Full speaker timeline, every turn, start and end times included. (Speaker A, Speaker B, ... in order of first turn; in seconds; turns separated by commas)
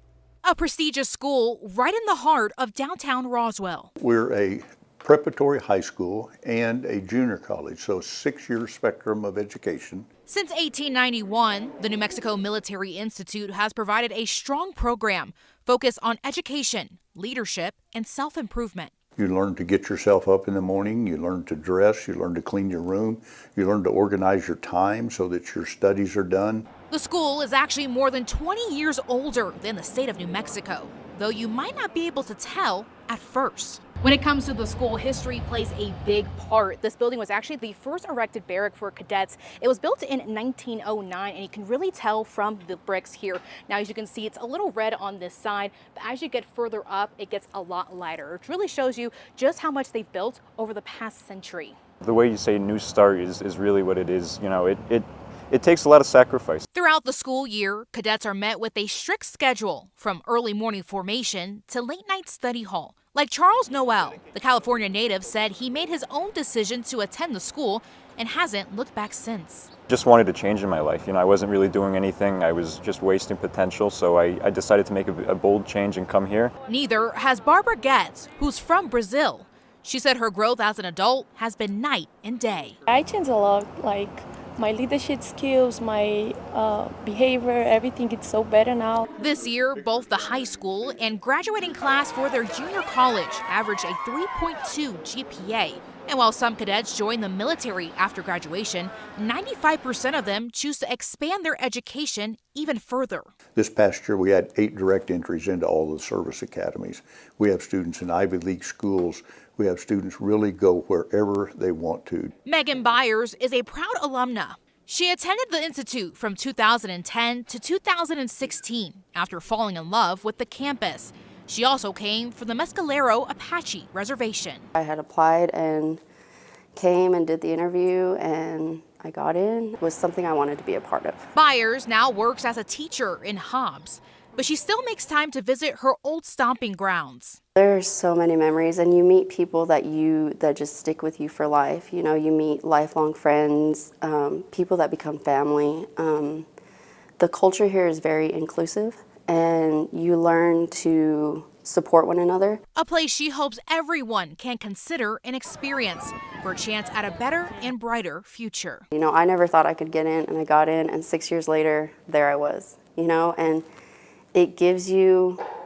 Speaker A: 0.4-3.9, Speaker B: 4.0-10.1, Speaker A: 10.3-18.9, Speaker B: 19.2-26.7, Speaker A: 26.9-51.8, Speaker C: 52.0-56.6, Speaker A: 56.7-69.7, Speaker C: 69.9-76.5, Speaker A: 76.7-82.8, Speaker D: 82.9-89.0, Speaker A: 89.2-103.3, Speaker B: 103.5-112.3, Speaker A: 112.5-124.7, Speaker E: 124.7-126.0, Speaker E: 126.7-131.3, Speaker A: 131.3-137.4, Speaker E: 137.6-146.5, Speaker E: 147.2-152.6, Speaker A: 152.8-158.8, Speaker E: 158.9-163.7, Speaker E: 164.3-165.4